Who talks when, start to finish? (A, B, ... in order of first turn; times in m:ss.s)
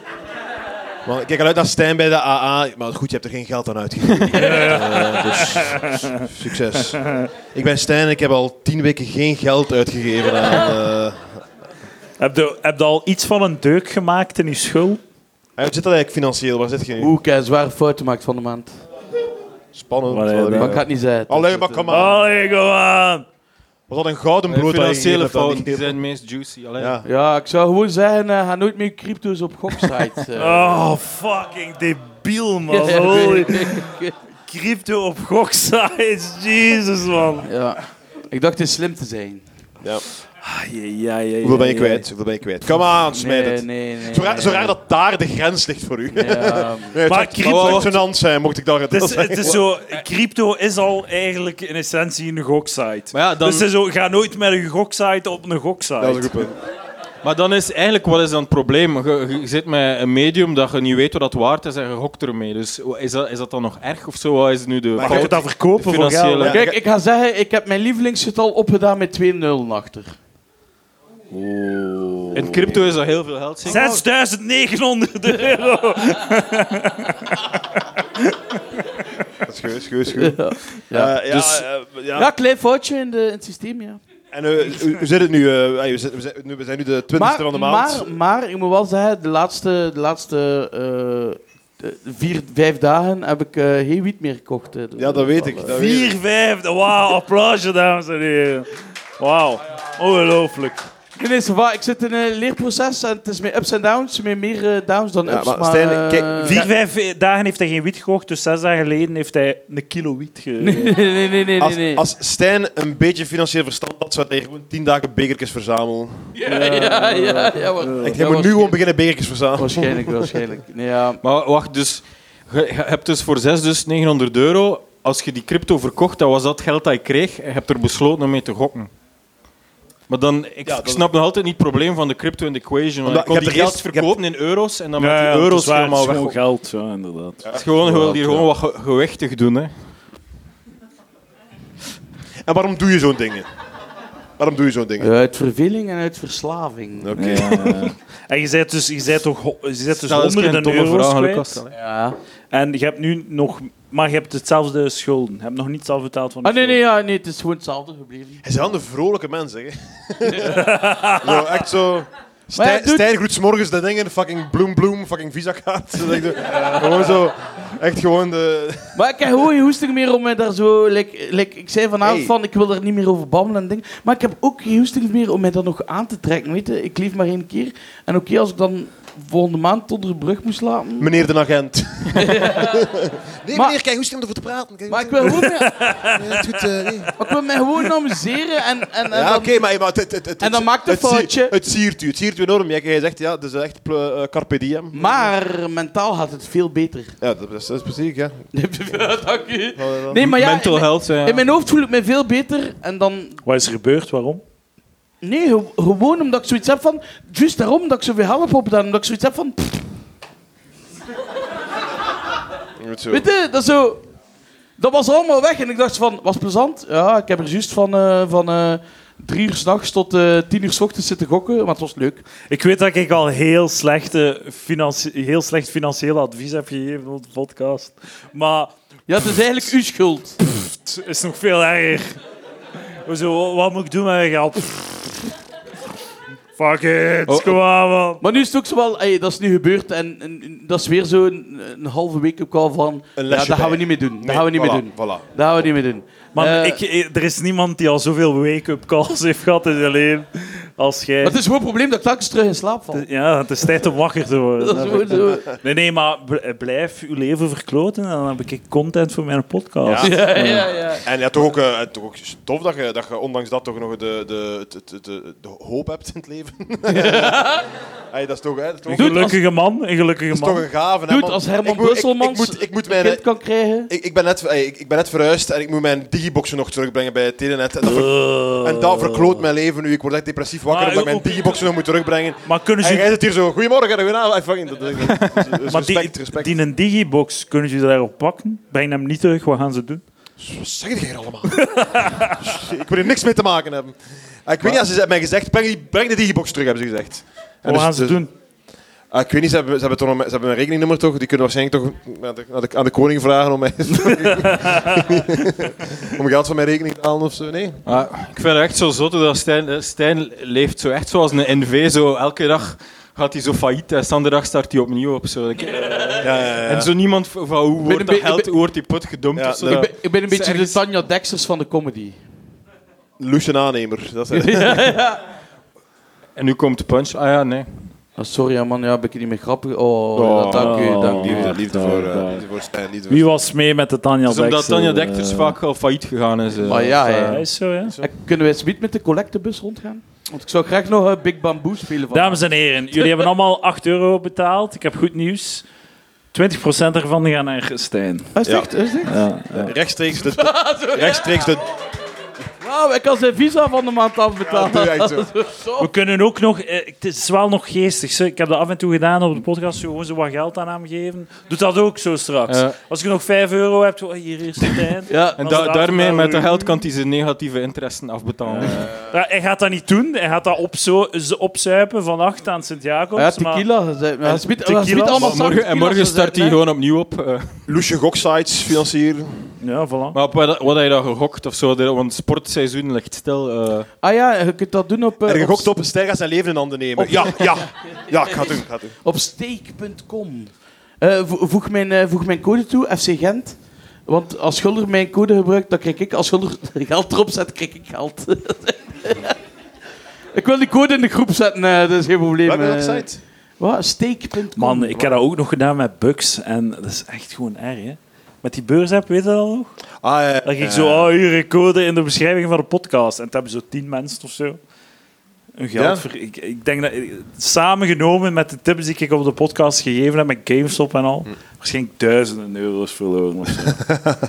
0:01.0-0:11.4 A
0:04.3-0:04.8 B
0:04.3-0:06.0 C
0:12.2-0:15.0 C
0:15.6-0:17.1 A
0:17.0-0:18.7 B
0:19.7-0:22.2 A
0:20.1-0:20.8 C
0:20.6-0:22.0 B
0:21.9-0:23.2 C
0:23.9-0:26.0 A
0:24.5-0:27.0 D
0:26.8-0:27.1 A
0:27.0-0:30.8 B
0:30.4-0:33.9 C
0:32.7-0:34.2 B
0:34.5-0:37.5 C
0:37.4-0:39.4 B
0:40.4-0:42.1 C
0:41.4-0:49.6 A
0:43.1-0:44.8 B
0:46.2-0:47.0 B
0:47.1-0:48.0 C
0:47.4-0:47.9 D
0:48.9-0:56.4 C
0:53.1-0:53.7 D
0:56.0-0:56.6 A
0:57.2-1:06.6 D
1:05.0-1:05.4 A
1:05.0-1:06.6 C
1:06.4-1:06.8 A
1:06.5-1:10.2 B
1:11.3-1:12.8 C
1:12.3-1:13.9 D
1:13.6-1:18.4 C
1:19.4-1:22.3 A
1:20.1-1:21.6 B
1:22.2-1:24.0 B
1:24.3-1:28.1 A
1:27.1-1:35.7 B
1:35.0-1:36.2 A
1:35.7-1:40.9 C
1:41.2-1:46.7 B
1:45.2-1:46.7 A
1:46.4-1:51.0 C
1:50.6-1:52.0 B
1:51.6-1:56.4 A
1:56.4-1:58.8 B
1:56.5-1:58.2 C
1:58.0-2:00.4 A
1:59.6-2:01.2 B
2:01.2-2:08.9 D
2:10.1-2:16.4 D
2:10.6-2:11.0 A
2:13.0-2:14.2 A
2:15.0-2:17.4 C
2:17.4-2:18.4 A
2:17.5-2:19.7 D
2:22.4-2:23.5 A
2:24.4-2:25.1 A
2:25.0-2:27.1 B
2:27.0-2:27.9 A
2:27.2-2:31.6 C
2:29.9-2:31.7 D
2:31.7-2:32.2 B
2:32.5-2:36.8 C
2:36.4-2:38.4 B
2:38.4-2:49.0 A
2:40.2-2:40.6 B
2:40.4-2:41.5 C
2:42.6-2:43.0 B
2:46.5-2:47.0 B
2:49.0-3:01.1 B
2:52.0-2:52.3 A
3:01.0-3:07.1 A
3:02.2-3:02.9 B
3:04.9-3:05.9 B
3:05.4-3:06.3 C
3:07.2-3:09.6 B
3:09.1-3:15.3 A
3:10.4-3:11.5 B
3:14.9-3:17.2 B
3:17.2-3:18.5 A
3:18.5-3:23.4 B
3:19.8-3:20.3 A
3:20.2-3:21.5 D
3:23.4-3:24.4 C
3:25.2-3:29.9 B
3:32.8-3:33.3 A
3:33.1-3:34.0 B
3:34.8-3:42.3 B
3:42.5-3:48.7 C
3:49.1-3:50.4 B
3:50.4-3:52.2 C
3:53.0-3:55.3 C
3:56.6-3:58.2 C
3:57.3-3:57.6 D
3:58.2-4:06.8 B
4:03.2-4:05.3 A
4:06.4-4:11.4 C
4:11.2-4:13.1 B
4:12.9-4:20.7 C
4:14.6-4:15.6 B
4:19.8-4:20.3 A
4:20.0-4:21.0 B
4:21.0-4:27.6 A
4:26.9-4:27.7 B
4:28.1-4:29.4 A
4:28.9-4:30.7 C
4:29.0-4:29.4 B
4:30.3-4:33.2 A
4:31.1-4:33.9 B
4:33.9-4:46.5 A
4:37.8-4:39.4 C
4:40.7-4:41.6 C
4:42.4-4:43.1 C
4:45.2-4:45.4 D
4:45.7-4:50.0 C
4:50.4-4:58.2 A
4:51.6-4:52.5 C
4:57.6-4:58.3 C
4:59.1-5:07.8 A
5:07.8-5:20.8 D
5:16.2-5:16.9 A
5:17.8-5:18.5 B
5:19.4-5:19.9 A
5:19.6-5:22.2 B
5:23.2-5:24.9 A
5:24.3-5:25.2 B
5:26.4-5:27.9 D
5:28.2-5:31.6 B
5:30.2-5:33.3 A
5:30.5-5:32.5 C
5:33.1-5:35.6 C
5:34.3-5:37.4 D
5:36.6-5:37.5 B
5:37.1-5:38.0 C
5:38.0-5:42.4 B
5:42.1-5:45.6 C
5:43.0-5:43.2 B
5:46.3-5:48.3 C
5:48.4-5:49.2 B
5:48.4-5:48.7 A
5:49.1-5:49.7 C
5:49.5-5:51.7 A
5:50.2-5:51.5 B
5:52.6-5:55.9 B
5:54.4-5:55.3 A
5:55.8-6:06.8 C
6:02.5-6:02.8 D
6:05.1-6:05.4 B
6:05.4-6:09.0 D
6:08.6-6:13.6 C
6:13.2-6:16.6 B
6:14.2-6:15.4 C
6:15.0-6:17.6 D
6:17.7-6:19.6 A
6:19.6-6:20.2 C
6:20.1-6:23.9 D
6:24.0-6:25.7 B
6:25.2-6:29.0 A
6:27.0-6:27.6 B
6:29.0-6:39.4 B
6:40.3-6:43.1 B
6:42.4-6:43.2 A
6:43.6-6:45.2 B
6:44.6-6:49.7 C
6:50.0-6:51.1 A
6:50.4-6:54.6 C
6:55.6-7:03.9 C
6:55.8-6:56.0 A